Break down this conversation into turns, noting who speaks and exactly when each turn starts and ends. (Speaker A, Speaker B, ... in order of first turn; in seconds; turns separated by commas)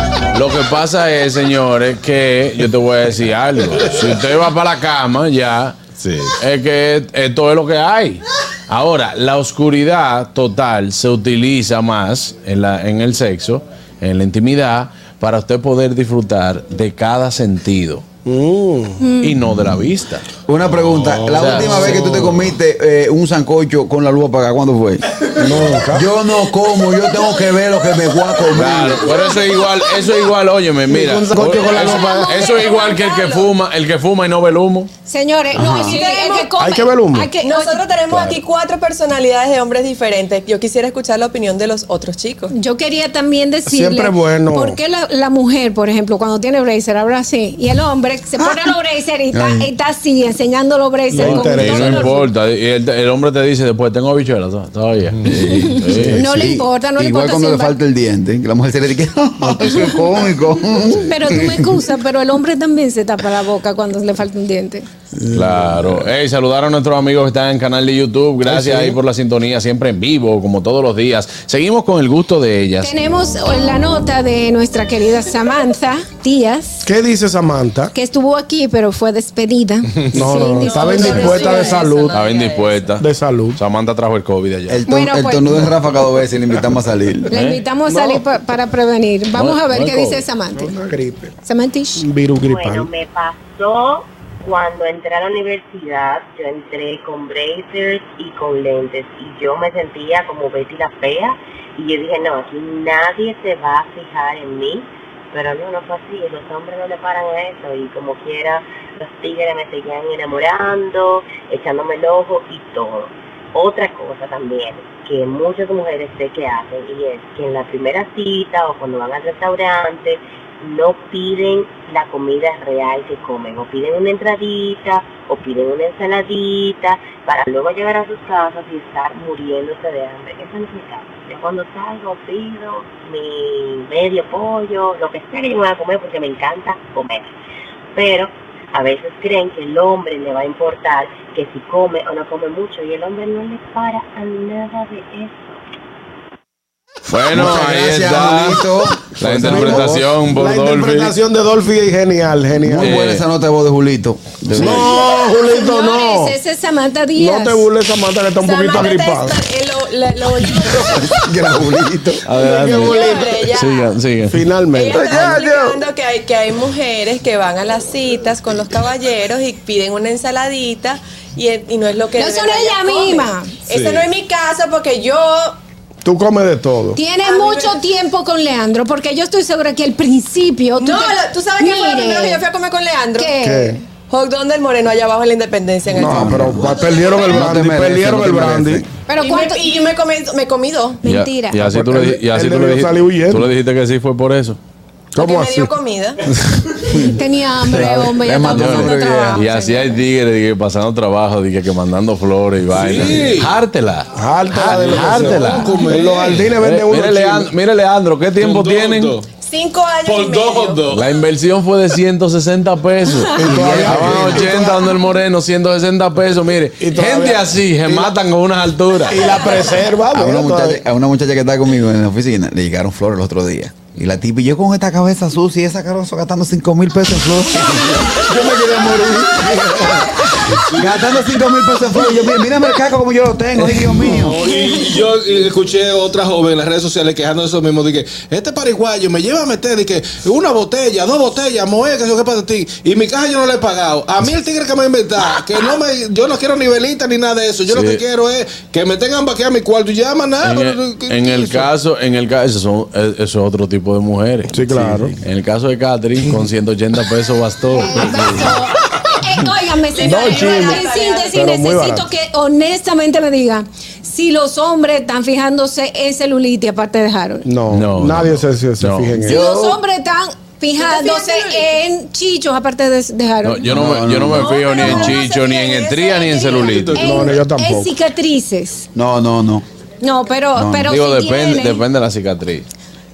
Speaker A: 0.3-5.8, Speaker B: 3.7-4.2, Speaker B: 6.0-6.4, Speaker A: 6.4-18.0, Speaker C: 18.2-19.1, Speaker D: 19.0-19.4, Speaker A: 19.2-20.3, Speaker E: 20.5-29.1, Speaker B: 20.6-22.5, Speaker A: 21.3-22.2, Speaker C: 25.3-26.1, Speaker A: 28.5-34.9, Speaker C: 30.9-32.5, Speaker F: 31.7-33.5, Speaker D: 35.1-37.9, Speaker E: 35.5-36.0, Speaker F: 35.8-36.5, Speaker C: 36.6-37.3, Speaker F: 37.4-42.5, Speaker D: 42.5-52.3, Speaker C: 43.7-44.8, Speaker E: 48.4-48.7, Speaker E: 49.3-49.7, Speaker C: 51.1-52.2, Speaker A: 51.1-56.3, Speaker B: 55.2-55.4, Speaker E: 55.2-61.8, Speaker D: 55.5-57.8, Speaker D: 61.0-64.9, Speaker A: 65.3-72.9, Speaker E: 65.3-65.7, Speaker C: 68.4-69.0, Speaker D: 72.8-76.9, Speaker C: 76.8-77.9, Speaker D: 78.0-81.9, Speaker C: 80.1-82.2, Speaker F: 80.2-83.0, Speaker A: 82.1-84.8, Speaker C: 83.0-83.6, Speaker E: 84.7-87.3, Speaker D: 84.9-85.7, Speaker D: 87.3-90.7, Speaker A: 87.3-87.6, Speaker C: 87.9-88.2, Speaker A: 89.3-90.2, Speaker C: 90.6-91.3, Speaker D: 91.4-92.1, Speaker C: 92.0-92.9, Speaker G: 92.4-137.3, Speaker G: 137.9-145.6, Speaker A: 147.1-151.1, Speaker E: 147.3-150.1, Speaker C: 149.3-153.0, Speaker E: 152.6-155.0, Speaker A: 152.8-153.2, Speaker A: 154.5-154.8, Speaker C: 154.6-156.4, Speaker D: 154.9-157.7, Speaker C: 157.2-159.4, Speaker F: 158.4-161.2, Speaker E: 160.8-162.2, Speaker A: 162.2-164.4, Speaker C: 162.4-163.5, Speaker F: 162.4-164.0, Speaker C: 164.3-165.1, Speaker F: 164.7-175.6, Speaker E: 164.9-165.8, Speaker D: 172.2-173.5, Speaker B: 173.7-174.1, Speaker C: 176.0-177.0, Speaker D: 176.9-182.4, Speaker F: 177.2-177.8, Speaker F: 180.8-183.3, Speaker D: 183.2-183.8, Speaker C: 183.4-183.8, Speaker F: 184.1-187.3, Speaker C: 185.9-188.9, Speaker E: 186.0-188.9, Speaker D: 189.1-189.7, Speaker F: 189.2-191.0, Speaker D: 191.0-191.6, Speaker A: 191.0-194.6, Speaker C: 191.6-193.5, Speaker C: 195.2-195.7, Speaker F: 195.2-196.2, Speaker D: 196.9-200.0, Speaker E: 197.7-199.4, Speaker A: 198.5-205.9, Speaker B: 202.7-203.6, Speaker C: 204.1-207.5, Speaker B: 204.8-206.6, Speaker A: 206.6-209.2, Speaker B: 208.4-209.3, Speaker F: 209.4-210.8, Speaker B: 210.0-211.2, Speaker A: 210.9-219.4, Speaker C: 213.3-214.9, Speaker C: 216.8-218.2, Speaker C: 219.0-220.8, Speaker E: 220.1-234.4, Speaker B: 230.6-231.2, Speaker B: 233.6-251.7, Speaker A: 247.7-248.0, Speaker A: 250.4-258.4, Speaker C: 254.5-255.2, Speaker D: 257.7-267.5, Speaker F: 259.9-261.4, Speaker C: 260.0-262.1, Speaker C: 267.4-269.4, Speaker A: 267.7-269.3, Speaker E: 269.3-269.8, Speaker D: 269.3-273.8, Speaker F: 270.8-271.7, Speaker A: 273.4-277.1, Speaker E: 273.6-275.2, Speaker F: 274.4-276.6, Speaker D: 274.5-275.2, Speaker D: 275.9-278.9, Speaker B: 276.4-277.4, Speaker C: 277.0-277.9, Speaker E: 278.9-279.6, Speaker D: 280.0-281.8, Speaker E: 280.6-280.9, Speaker A: 280.8-282.7